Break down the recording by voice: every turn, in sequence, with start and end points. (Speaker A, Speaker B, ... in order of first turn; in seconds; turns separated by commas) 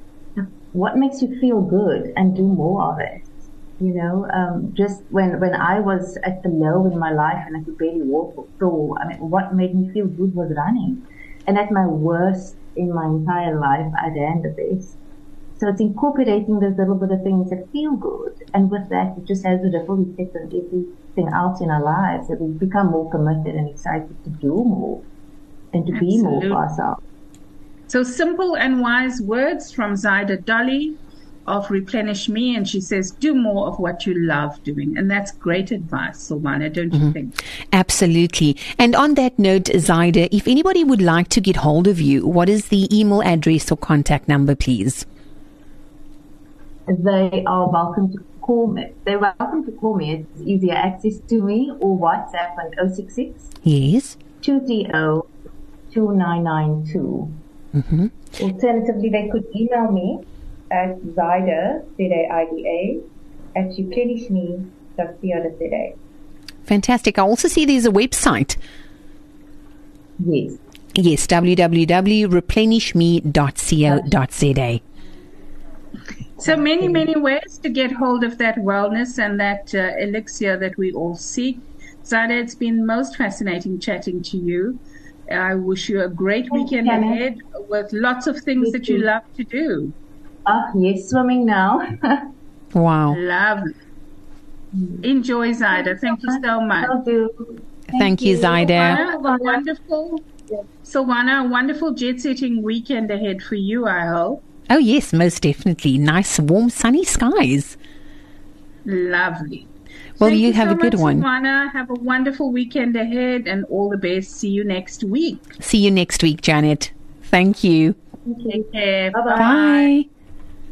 Speaker A: 0.3-15.0, Speaker A: 15.6-25.1, Speaker A: 25.7-27.0, Speaker B: 25.9-26.6, Speaker B: 27.9-37.3, Speaker C: 37.7-45.0, Speaker A: 46.9-53.5, Speaker C: 53.6-54.2, Speaker A: 54.4-55.3, Speaker A: 55.9-57.4, Speaker C: 57.7-58.1, Speaker A: 58.4-63.0, Speaker A: 63.5-66.0, Speaker C: 66.7-68.6, Speaker A: 70.2-70.6, Speaker C: 70.9-74.8, Speaker A: 73.9-74.1, Speaker B: 76.4-89.9, Speaker A: 76.4-77.1, Speaker A: 86.5-87.2, Speaker A: 88.6-89.1, Speaker A: 90.5-92.3, Speaker C: 92.7-93.2, Speaker B: 93.1-93.7, Speaker A: 94.7-95.0, Speaker B: 95.0-96.9, Speaker A: 96.1-99.6, Speaker C: 97.9-99.0, Speaker B: 98.7-100.3, Speaker B: 100.8-104.4, Speaker C: 104.7-107.8, Speaker B: 108.8-115.5, Speaker C: 110.2-111.2, Speaker C: 115.6-118.0, Speaker A: 118.2-119.5, Speaker B: 118.5-119.9, Speaker C: 119.3-120.1